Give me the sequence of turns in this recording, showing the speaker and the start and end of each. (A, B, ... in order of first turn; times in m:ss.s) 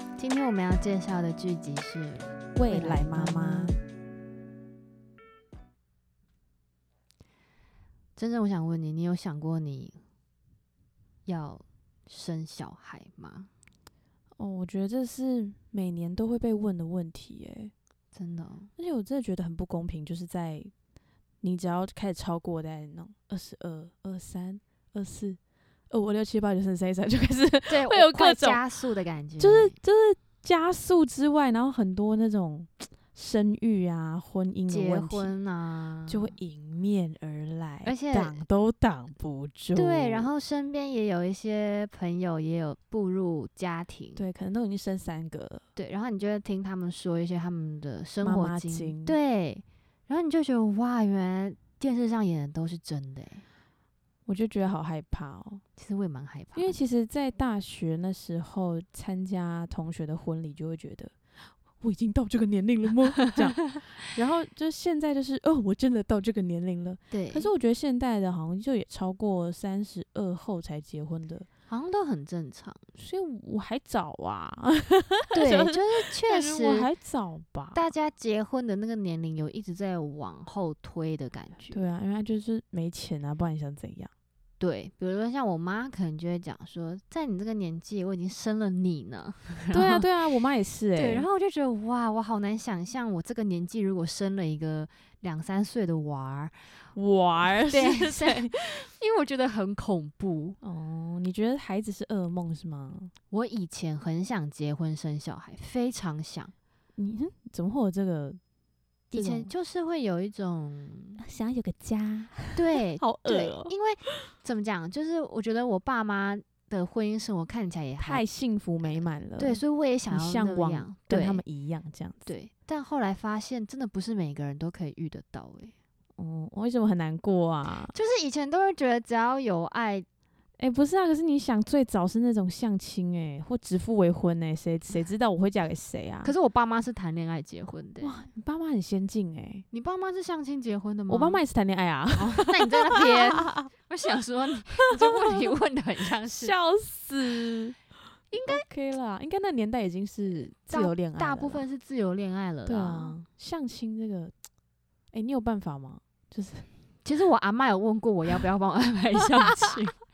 0:00.2-0:03.7 A
0:02.6-0:03.8 B
0:08.2-0:10.0 A
0:11.2-0:13.5 A
0:14.4-0:17.7 B
0:18.1-0:18.7 A
0:18.8-0:20.7 B
0:21.4-0:25.4 B
0:25.9-0:28.6 B
0:27.7-0:29.8 A
0:29.4-0:35.3 B
0:34.7-0:36.3 A
0:36.1-0:40.3 B
0:37.8-0:38.4 A
0:39.7-0:44.2 A
0:44.2-0:45.6 B
0:45.8-0:53.4 A
0:48.2-0:49.2 B
0:54.2-0:55.6 B
0:55.8-0:56.8 A
0:56.5-1:01.2 B
1:01.8-1:11.5 B
1:07.1-1:07.5 A
1:11.7-1:12.8 A
1:13.0-1:17.8 B
1:15.3-1:16.9 A
1:17.7-1:21.8 A
1:21.7-1:24.1 B
1:24.6-1:30.1 A
1:29.7-1:31.2 B
1:31.0-1:36.5 A
1:36.9-1:38.8 B
1:37.7-1:40.6 A
1:40.6-1:43.1 B
1:43.3-1:46.5 A
1:47.0-1:48.4 B
1:49.1-1:51.2 A
1:49.1-1:49.5 B
1:51.2-1:53.7 B
1:52.5-1:58.2 A
1:58.0-2:02.2 B
1:58.8-2:01.4 A
2:02.2-2:05.7 A
2:06.2-2:07.9 B
2:07.9-2:10.0 A
2:10.6-2:16.3 B
2:16.2-2:18.2 A
2:18.0-2:19.6 B
2:19.7-2:21.4 A
2:21.1-2:23.7 B
2:22.1-2:26.5 A
2:24.9-2:25.5 B
2:26.4-2:27.8 B
2:28.3-2:28.6 A
2:28.4-2:31.6 B
2:30.7-2:33.1 A
2:32.6-2:34.3 B
2:35.1-2:36.7 B
2:37.0-2:39.9 A